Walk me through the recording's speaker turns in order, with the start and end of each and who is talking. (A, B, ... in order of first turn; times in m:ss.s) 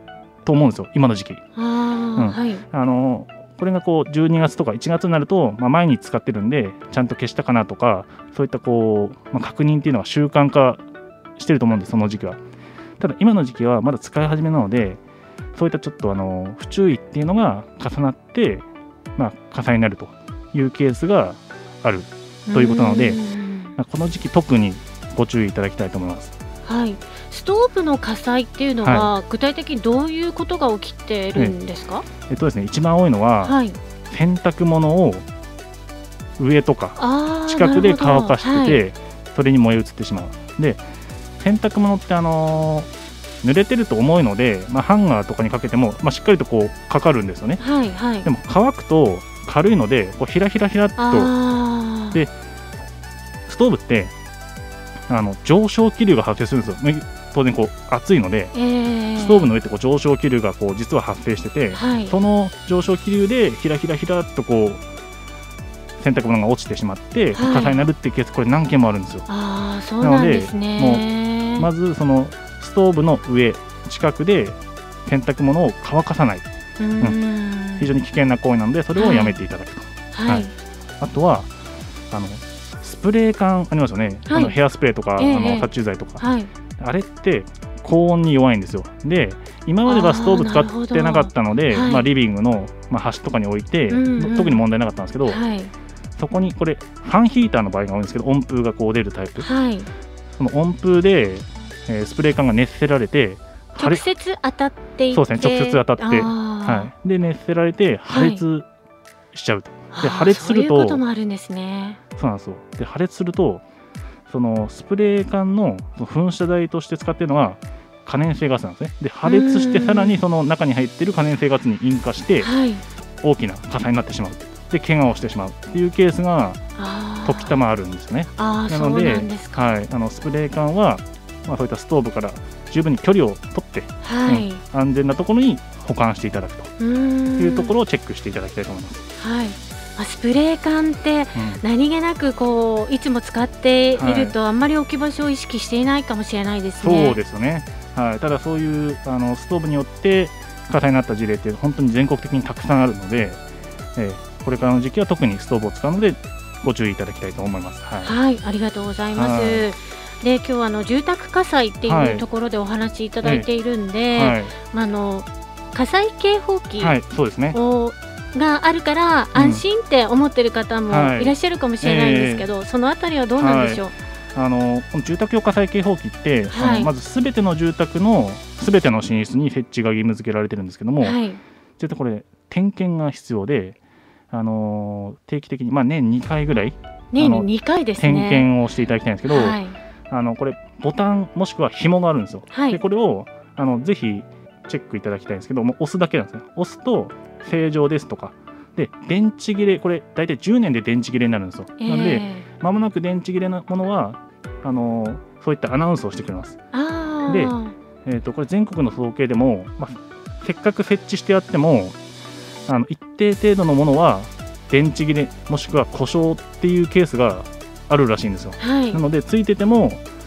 0:00.4-0:01.4 A
0:01.6-0:02.6 B
0:02.2-0:10.8 A
0:11.4-0:12.4 A
0:13.0-0:15.0 A
0:15.5-0:18.6 A
0:19.2-0:23.2 A
0:22.5-0:23.8 B
0:23.8-0:26.3 A
0:26.6-0:32.0 B
0:28.8-0:29.1 A
0:32.3-0:33.6 A
0:33.4-0:33.8 B
0:34.1-0:35.2 A
0:36.4-0:40.8 A
0:37.0-0:38.8 B
0:41.4-0:42.9 A
0:43.4-0:47.6 A
0:47.6-0:48.3 B
0:48.2-0:51.3 A
0:51.0-0:52.2 B
0:53.5-0:54.1 A
0:55.1-0:58.5 A
0:58.5-0:59.5 B
0:59.2-1:04.8 A
1:01.7-1:02.2 B
1:06.0-1:09.3 A
1:07.3-1:07.8 B
1:09.3-1:11.7 B
1:10.0-1:16.4 A
1:16.8-1:17.9 B
1:17.8-1:21.5 A
1:19.0-1:19.4 B
1:20.1-1:20.5 B
1:22.1-1:26.2 A
1:24.3-1:24.5 B
1:25.2-1:25.7 B
1:26.2-1:26.5 B
1:26.8-1:35.4 A
1:29.8-1:32.1 B
1:33.9-1:34.6 B
1:35.2-1:35.7 B
1:36.2-1:39.5 A
1:39.4-1:39.9 B
1:40.3-1:44.0 A
1:43.8-1:46.9 B
1:45.1-1:48.7 A
1:48.1-1:48.4 B
1:49.3-1:51.0 A
1:49.9-1:52.0 B
1:52.2-1:53.6 A
1:54.3-2:02.5 A
1:59.2-2:00.2 B
2:02.4-2:02.8 B
2:03.2-2:06.6 A
2:06.8-2:07.6 B
2:07.2-2:16.7 A
2:08.4-2:09.7 B
2:14.0-2:14.6 B
2:16.8-2:17.7 B
2:17.4-2:19.0 A
2:19.2-2:27.2 B
2:21.3-2:21.6 A
2:24.0-2:24.4 A
2:26.8-2:33.4 A
2:34.0-2:38.2 A
2:38.0-2:46.9 B
2:39.1-2:39.7 A
2:41.8-2:42.2 A
2:43.2-2:43.5 A
2:44.1-2:44.5 A
2:46.8-2:47.6 A
2:47.5-2:53.9 B
2:49.3-2:49.6 A
2:50.9-2:52.5 A
2:53.4-3:01.2 A
2:56.5-2:56.9 B
3:01.0-3:01.4 B
3:01.8-3:03.8 A
3:04.3-3:09.6 A
3:07.1-3:08.5 B
3:09.3-3:09.8 B
3:10.1-3:26.6 A
3:12.5-3:12.8 B
3:21.8-3:22.4 B
3:26.7-3:27.7 B
3:27.3-3:32.0 A
3:32.7-3:40.0 A
3:38.6-3:39.0 B